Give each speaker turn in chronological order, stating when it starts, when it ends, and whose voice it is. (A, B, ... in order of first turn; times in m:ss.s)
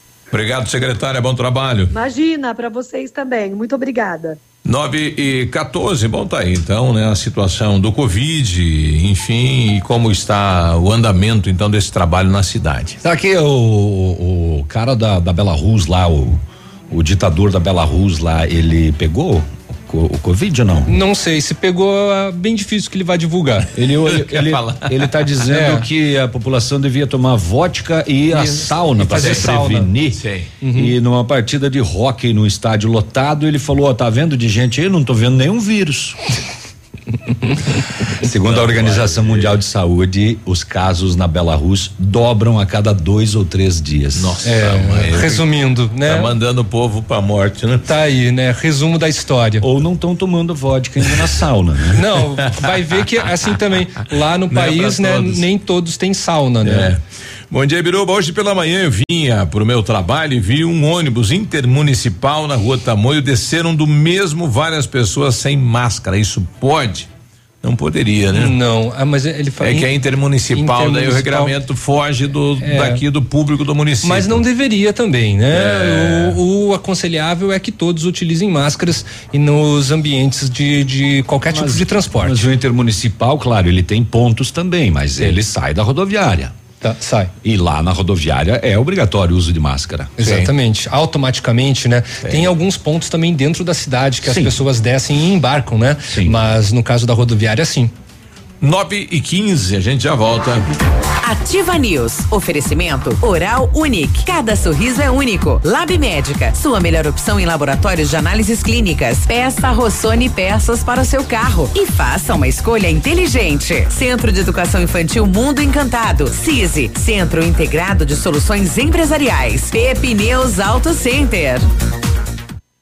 0:00.3-0:01.9 A
0:01.9-0:04.4 B
0:04.6-0:13.0 A
0:13.0-0:20.9 C
0:20.9-0:23.7 D
0:23.7-0:30.2 C
0:24.1-0:25.3 A
0:25.5-0:25.9 D
0:28.3-0:29.9 D
0:29.0-0:29.5 A
0:30.1-0:30.5 A
0:30.6-0:30.9 D
0:30.7-0:36.2 C
0:38.2-0:44.4 C
0:38.4-0:39.6 A
0:44.2-0:45.4 A
0:44.4-0:46.3 D
0:46.0-0:47.8 A
0:47.8-0:49.6 D
0:49.6-0:52.0 C
0:52.0-0:56.9 D
0:54.5-0:55.4 A
0:56.6-0:57.0 A
0:57.5-1:07.1 A
1:07.6-1:08.5 A
1:08.3-1:09.9 D
1:09.6-1:14.4 A
1:10.5-1:11.5 D
1:12.6-1:13.0 D
1:14.0-1:22.4 D
1:15.5-1:16.4 A
1:21.5-1:26.5 C
1:26.8-1:27.3 D
1:27.4-1:30.2 C
1:30.2-1:37.9 D
1:30.2-1:30.5 A
1:34.2-1:34.5 C
1:36.1-1:36.4 C
1:38.6-1:40.7 A
1:41.2-2:01.6 E